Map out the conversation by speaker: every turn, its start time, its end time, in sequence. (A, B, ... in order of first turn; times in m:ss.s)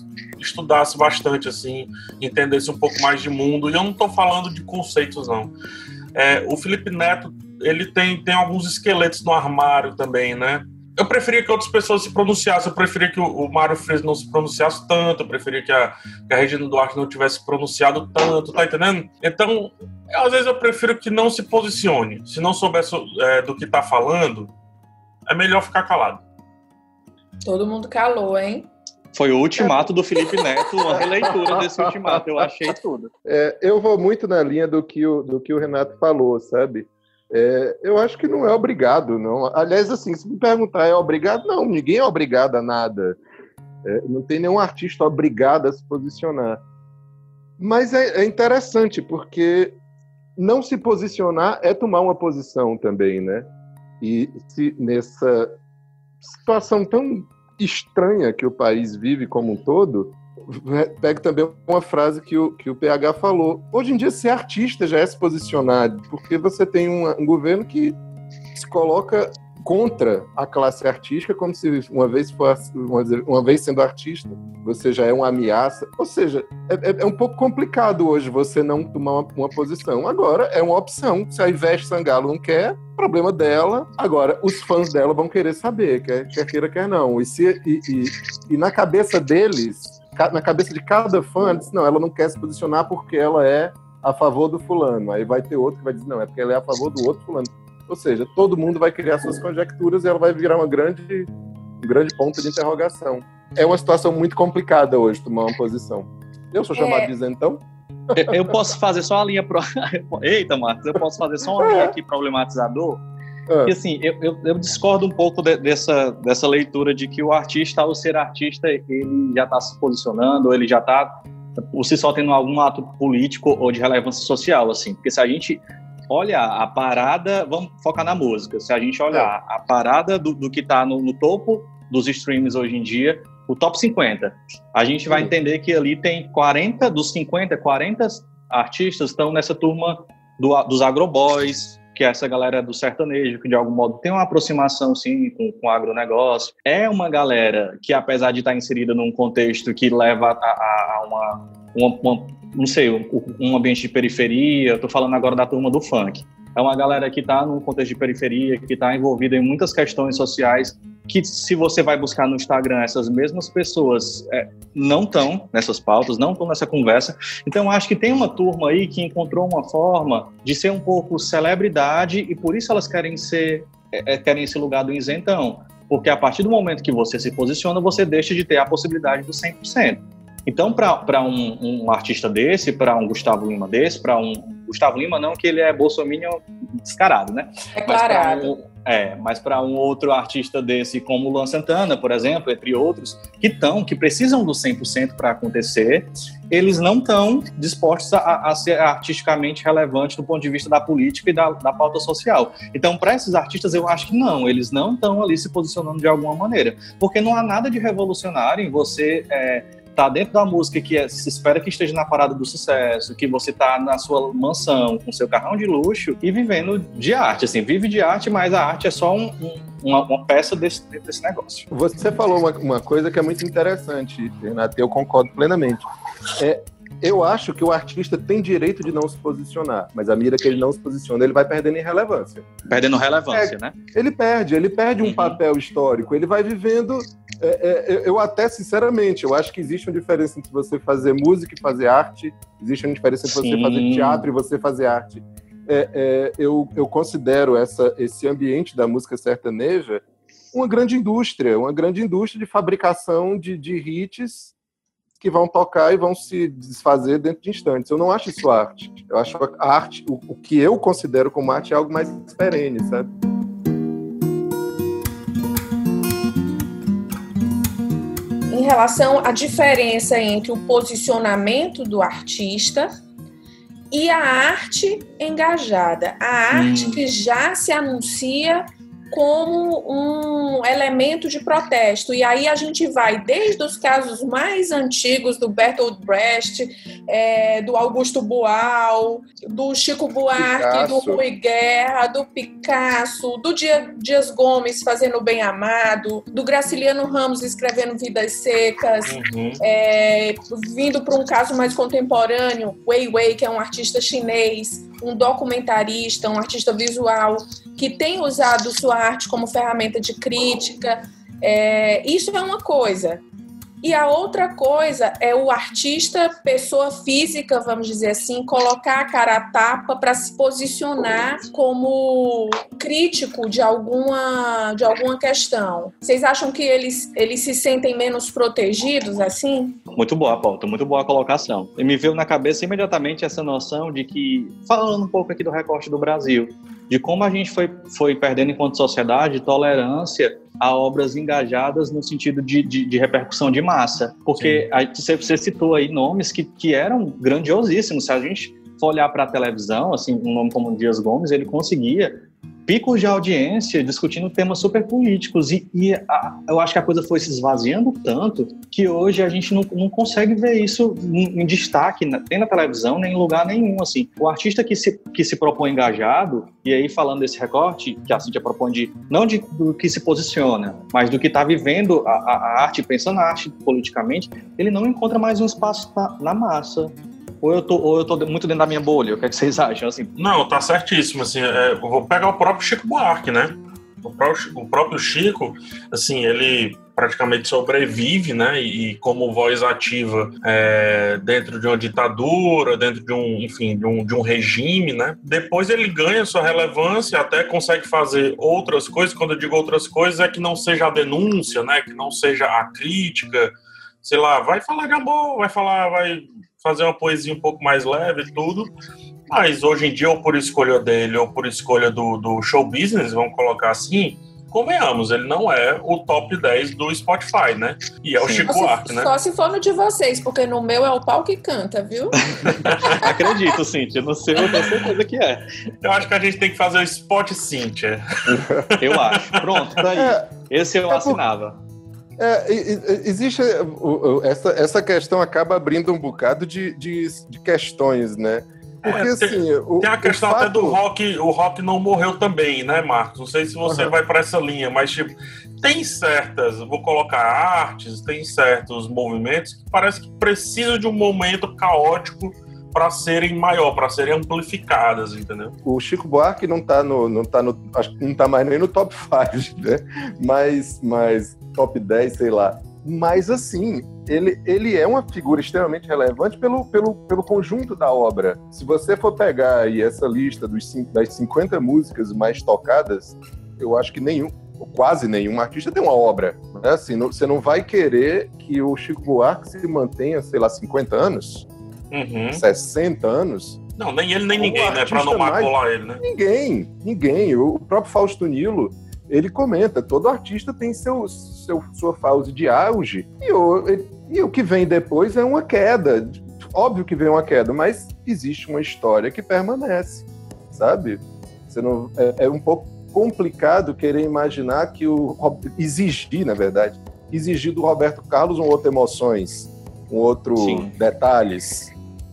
0:00.4-0:05.5 A
0:06.2-0:24.5 A
0:25.3-0:26.2 A
0:27.4-0:28.7 B
0:29.1-0:33.1 C
0:31.0-0:32.2 D
0:33.2-0:43.2 D
0:43.8-0:46.6 D
0:47.6-0:49.8 D
0:50.4-0:53.5 D
0:54.0-0:55.5 D
0:56.2-1:08.0 D
1:08.5-1:47.6 D
1:46.8-1:47.1 B
1:48.1-1:48.6 D
1:48.2-1:53.0 C
1:51.6-1:52.0 D
1:53.5-1:53.8 D
1:53.7-2:01.1 C
2:01.7-3:41.7 C
3:07.8-3:08.5 B
3:41.7-3:52.5 D
3:52.7-3:53.8 C
3:53.3-4:10.0 D
3:55.0-3:55.4 C
4:03.3-4:04.3 C
4:10.5-4:14.5 D
4:15.2-4:23.1 D
4:28.5-4:32.9 B
4:33.9-5:13.2 B
4:36.5-4:37.0 C
4:50.4-4:51.2 D
4:59.1-4:59.6 A
5:13.8-5:29.8 B
5:30.0-6:20.1 C
6:20.2-6:43.5 A
6:44.0-6:48.7 A
6:49.3-6:59.1 A
6:58.2-6:58.5 C
6:58.4-7:02.2 B
7:02.2-7:05.4 C
7:02.6-7:03.1 A
7:04.4-7:04.7 A
7:05.8-7:09.7 A
7:08.3-7:08.7 D
7:08.8-7:11.6 C
7:09.9-7:10.3 D
7:10.9-7:11.2 D
7:12.2-7:20.8 D
7:18.8-7:35.6 A
7:23.6-7:23.9 D
7:35.6-8:01.5 D
8:01.9-8:02.4 A
8:02.3-8:03.6 D
8:03.8-8:06.0 A
8:04.3-8:31.7 D
8:30.4-8:30.7 C